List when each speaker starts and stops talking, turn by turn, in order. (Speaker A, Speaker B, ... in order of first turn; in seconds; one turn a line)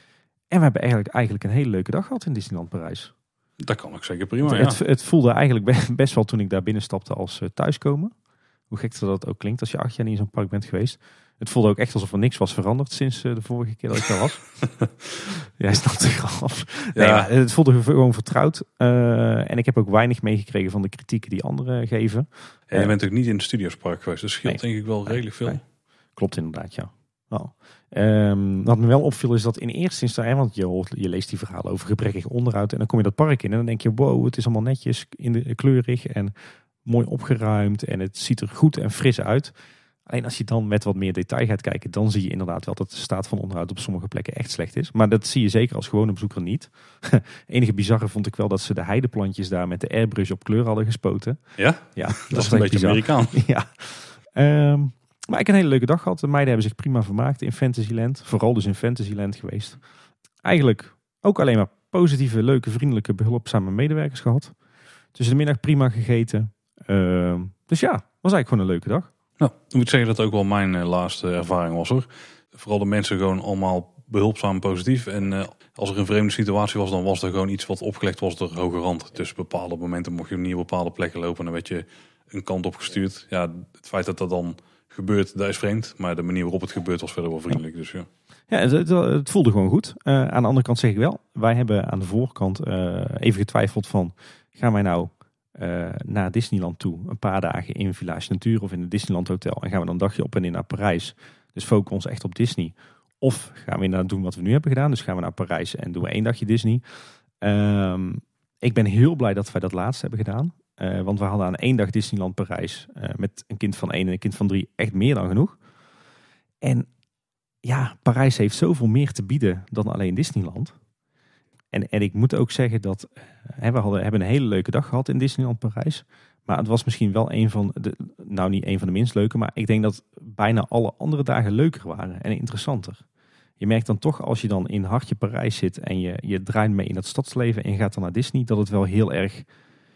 Speaker A: 0.5-3.1
Speaker B: 3.6-4.8
Speaker A: 4.4-8.1
Speaker A: 8.7-14.5
Speaker A: 15.2-22.9
Speaker B: 16.9-17.3
Speaker B: 22.7-25.6
Speaker A: 24.4-25.6
Speaker A: 26.2-36.3
Speaker A: 36.8-39.5
Speaker A: 40.1-51.4
Speaker B: 51.6-53.4
Speaker A: 52.0-59.8
Speaker A: 60.4-64.5
Speaker A: 65.2-69.1
Speaker B: 69.4-88.1
Speaker A: 88.5-106.8
Speaker A: 107.4-115.6
Speaker A: 116.6-116.9
Speaker A: 117.6-120.7
Speaker A: 121.7-133.0
Speaker A: 133.6-139.5